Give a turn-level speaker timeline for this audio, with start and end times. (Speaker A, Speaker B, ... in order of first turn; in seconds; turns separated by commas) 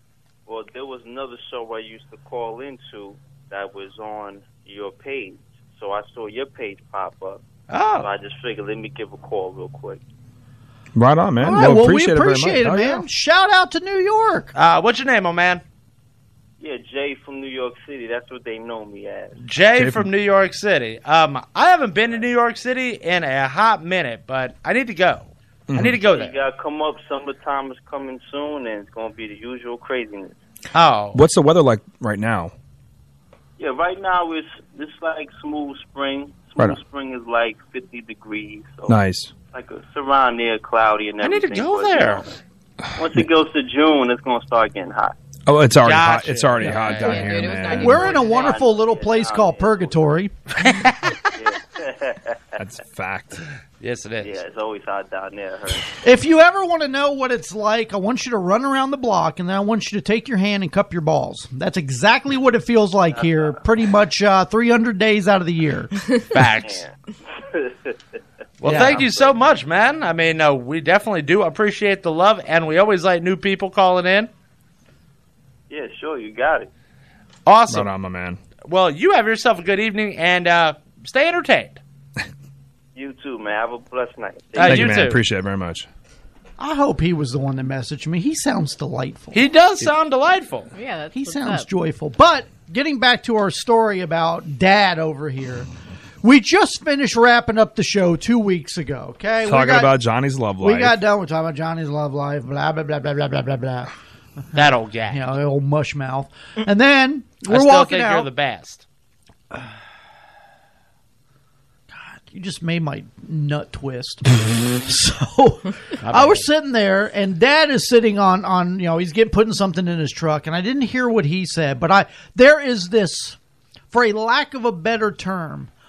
Speaker A: 0.5-7.4, Speaker B: 7.7-8.1, Speaker A: 8.0-10.0, Speaker C: 10.9-13.0, Speaker D: 11.4-14.5, Speaker B: 14.6-15.6, Speaker A: 16.6-19.4, Speaker B: 19.4-26.3, Speaker C: 19.8-20.1, Speaker C: 25.7-26.0, Speaker A: 26.1-30.3, Speaker B: 30.7-31.2, Speaker C: 31.1-32.5, Speaker A: 33.6-39.0, Speaker C: 38.9-39.3, Speaker A: 39.5-42.3, Speaker B: 41.2-42.3, Speaker A: 43.0-45.1, Speaker C: 45.5-48.1, Speaker B: 45.8-47.3, Speaker E: 46.6-48.6, Speaker D: 47.7-50.3, Speaker A: 48.1-50.0, Speaker B: 50.6-51.1, Speaker A: 51.3-52.4, Speaker C: 52.6-53.4, Speaker B: 53.8-54.4, Speaker A: 54.2-56.0, Speaker D: 56.0-65.9, Speaker A: 63.1-63.6, Speaker B: 66.3-66.8, Speaker A: 66.6-68.0, Speaker B: 68.6-74.3, Speaker A: 68.9-69.3, Speaker A: 75.7-76.7, Speaker B: 77.5-77.9, Speaker C: 77.7-78.4, Speaker B: 78.7-81.8, Speaker A: 83.0-85.1, Speaker B: 84.5-85.2, Speaker C: 84.6-85.9, Speaker D: 86.6-89.4, Speaker B: 89.3-90.7, Speaker E: 90.7-91.7, Speaker D: 91.1-95.7, Speaker D: 96.2-100.0, Speaker C: 99.4-101.0, Speaker D: 100.6-103.9, Speaker B: 104.5-105.2, Speaker D: 105.1-108.3, Speaker B: 107.5-108.8, Speaker D: 111.9-123.4, Speaker B: 116.0-116.5, Speaker D: 123.9-125.7